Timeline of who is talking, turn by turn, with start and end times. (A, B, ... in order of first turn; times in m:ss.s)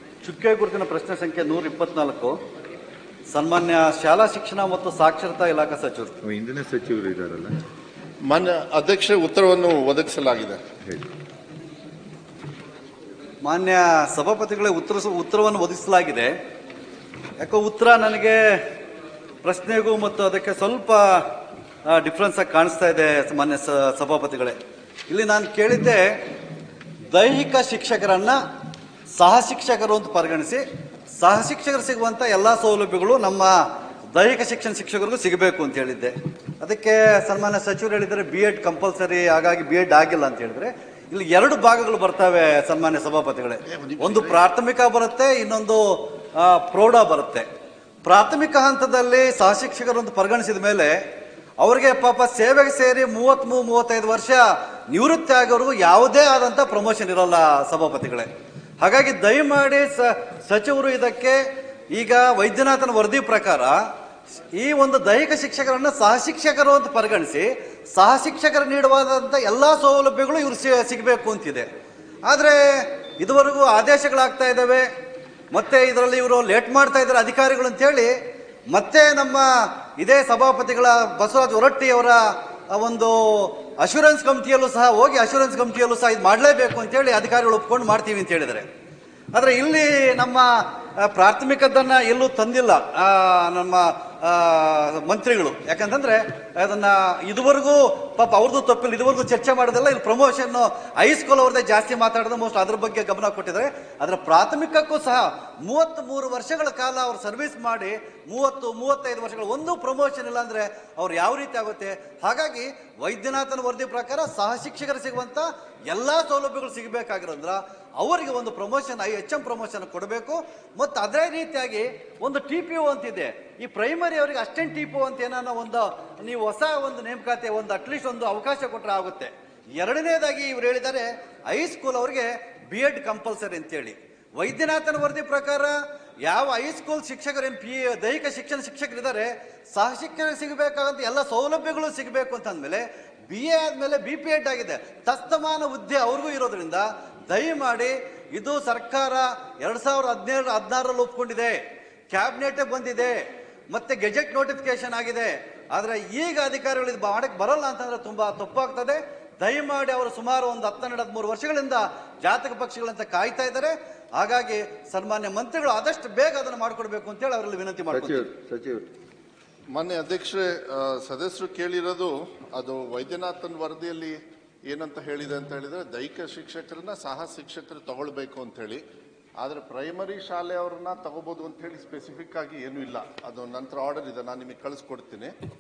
0:00.2-0:02.4 A
0:03.3-0:06.2 A
0:06.2-0:07.6 B
0:08.3-0:10.6 C
0:13.4-0:16.3 A
0:17.4-0:18.6 A
0:19.4-0:21.3 A
0:21.8-0:24.6 A
0:25.1-0:26.2 A
0:27.1-0:28.4 A
0:29.2-0:30.6 A
0:31.2-0:47.4 A
0:43.6-0:44.4 C
0:48.0-0:51.0 A
0:51.6-0:58.3 A
0:58.8-1:01.4 A
1:01.9-1:03.8 A
1:04.5-1:11.7 A
1:12.2-1:14.9 A
1:15.5-1:18.1 A
1:18.7-1:28.6 A
1:29.3-2:31.6 A
2:32.1-2:48.3 A
2:47.9-2:48.8 B
2:49.7-2:58.8 C
2:59.4-3:05.3 C